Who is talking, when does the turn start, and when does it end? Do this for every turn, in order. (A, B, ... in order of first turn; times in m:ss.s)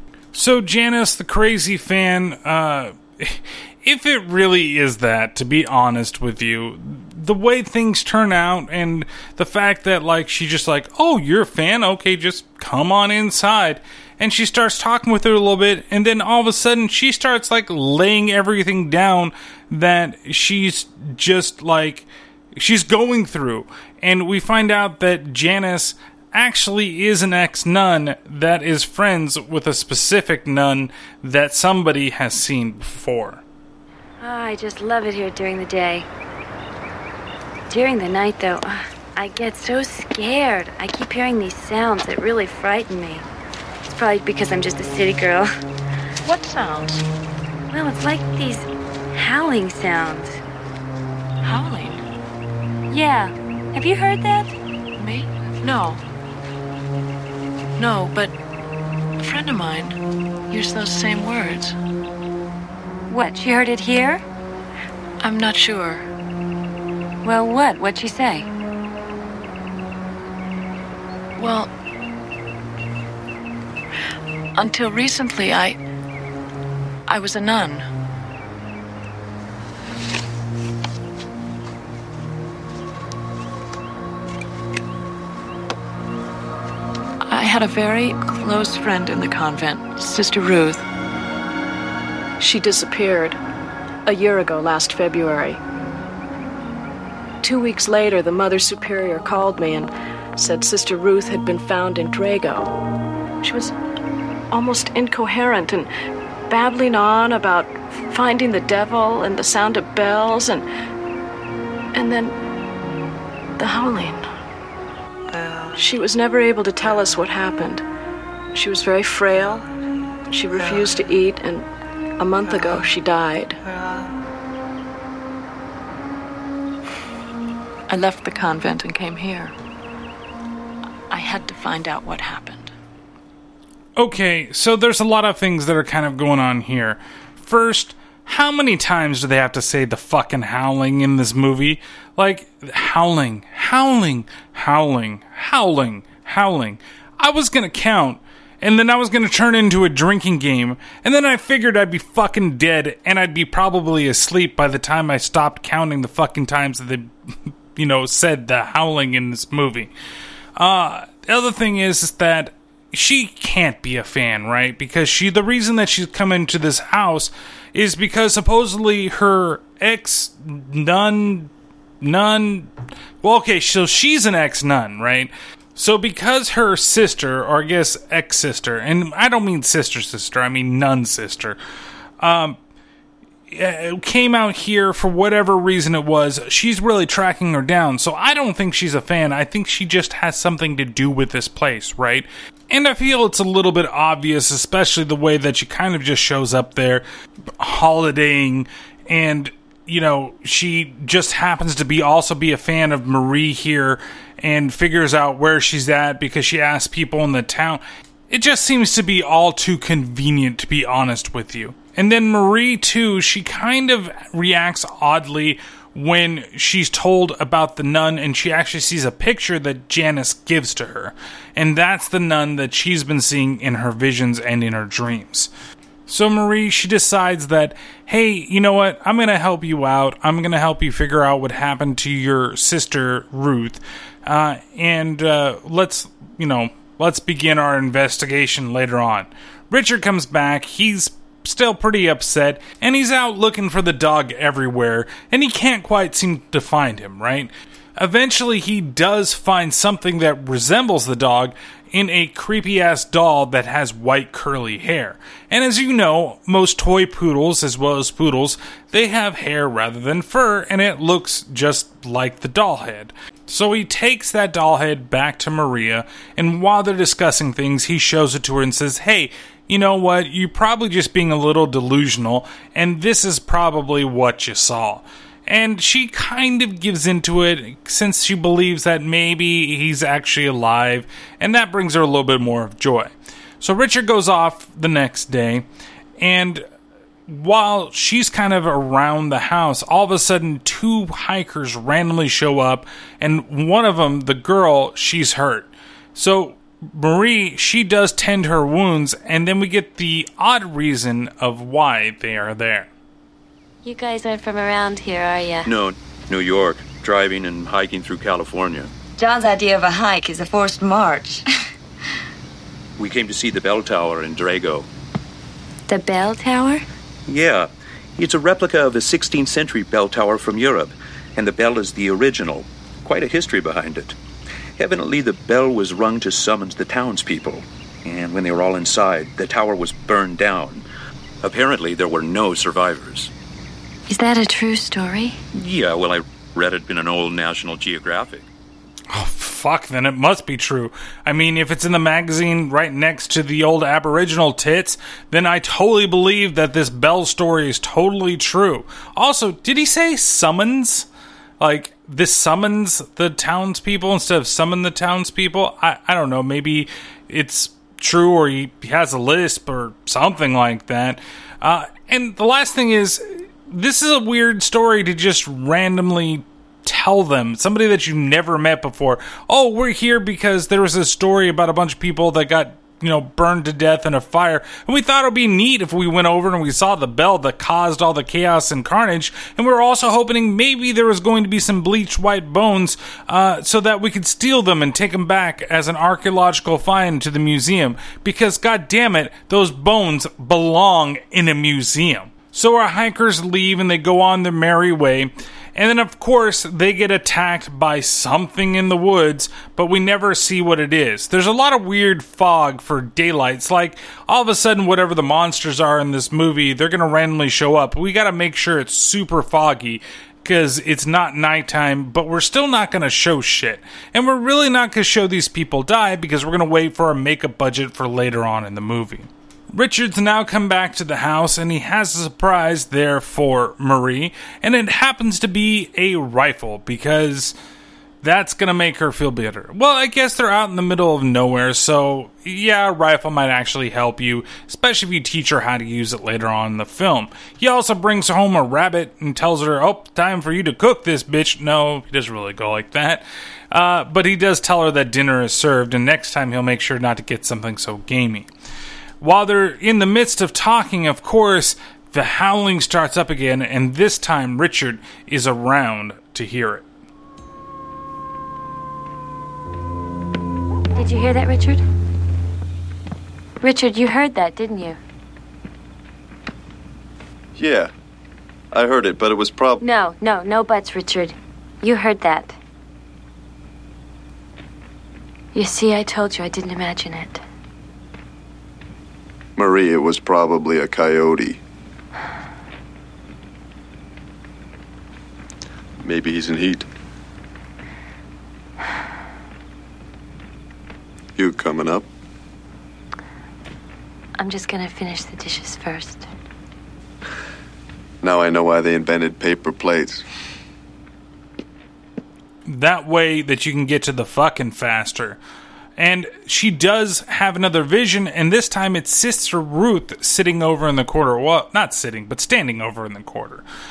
0:00.3-0:33.4 A
0:34.2-0:36.1 B
0:37.7-0:43.2 B
0:43.9-0:45.5 B
0:46.2-0:47.0 C
0:47.7-0:50.4 B
0:51.4-0:52.0 C
0:52.9-0:54.5 B
0:55.0-0:56.0 C
0:57.8-0:58.3 C
0:59.2-1:00.0 C
1:00.5-1:01.8 C
1:03.1-1:04.2 B
1:05.2-1:06.1 C
1:07.2-1:08.5 B
1:11.4-1:11.7 C
1:14.6-1:15.8 C
1:17.1-1:17.9 C
1:27.2-1:30.8 C
1:32.4-1:33.4 C
1:34.0-1:35.6 C
1:37.4-1:42.7 C
1:43.4-1:43.7 C
1:44.5-1:45.9 C
1:46.5-1:50.6 C
1:51.9-1:52.4 C
1:53.6-1:54.3 C
1:55.7-1:57.8 C
1:58.5-1:59.6 C
2:00.3-2:01.6 C
2:02.2-2:03.6 C
2:07.9-2:09.5 C
2:11.1-2:12.7 C
2:14.0-2:37.1 A
2:37.7-2:39.9 A
2:40.6-2:51.5 A
2:52.0-2:52.7 A
2:53.2-3:01.6 A
3:02.2-3:02.6 A
3:03.5-3:17.0 A
3:17.6-3:45.5 A
3:46.1-4:45.6 A
4:46.2-4:46.6 A
4:47.3-5:02.9 A
5:03.8-5:05.7 B
5:05.6-5:08.9 D
5:09.2-5:11.4 E
5:13.0-5:14.9 D
5:15.9-5:16.8 B
5:17.3-5:24.2 D
5:24.8-5:30.8 D
5:31.4-5:33.3 D
5:34.1-5:35.4 B
5:35.5-5:38.4 D
5:39.1-5:51.1 A
5:51.6-7:07.5 A
7:08.2-7:28.5 A
7:29.2-7:36.8 A
7:41.0-7:41.8 B
7:43.6-7:45.0 B
7:47.6-7:47.9 F
7:48.7-7:49.8 F
7:49.8-7:52.6 B
7:55.5-7:57.4 B
7:59.6-8:01.6 F
8:06.0-8:06.8 F
8:11.4-8:12.0 F
8:14.4-8:16.3 B
8:18.2-8:20.2 F
8:22.6-8:25.4 A
8:26.0-8:33.6 A